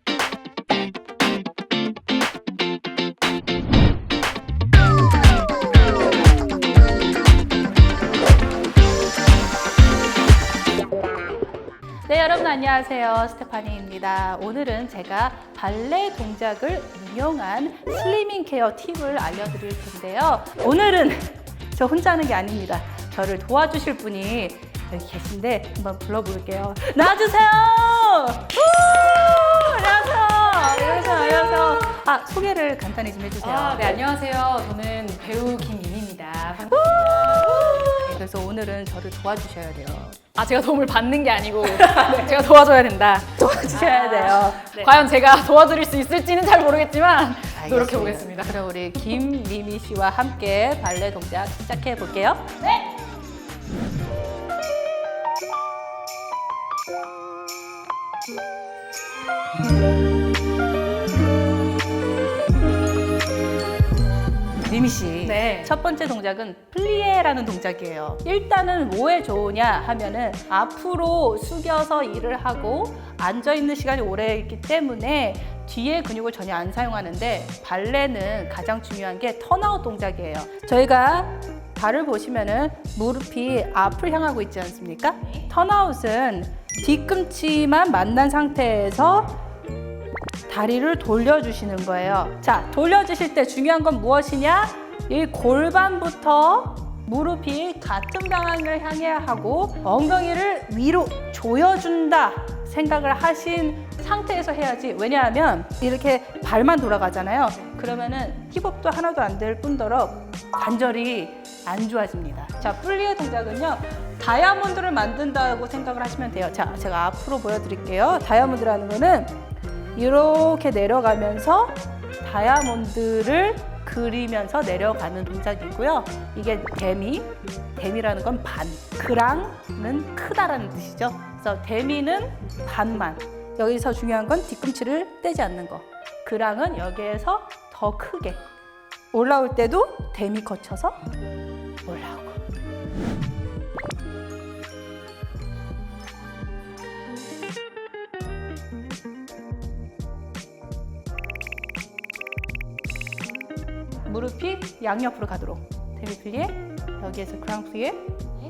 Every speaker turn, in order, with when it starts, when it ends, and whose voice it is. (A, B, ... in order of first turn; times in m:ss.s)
0:12.1-0:34.0 A
0:30.6-0:31.8 B
0:33.4-0:38.0 B
0:36.8-0:40.2 A
0:40.4-0:48.6 B
0:43.5-0:44.9 A
0:47.6-0:52.6 A
1:04.6-1:29.4 A
1:05.2-1:05.7 B
1:30.5-1:59.4 A
2:00.0-2:18.4 A
2:19.1-2:21.0 A
2:21.8-2:22.4 A
2:34.1-2:38.0 A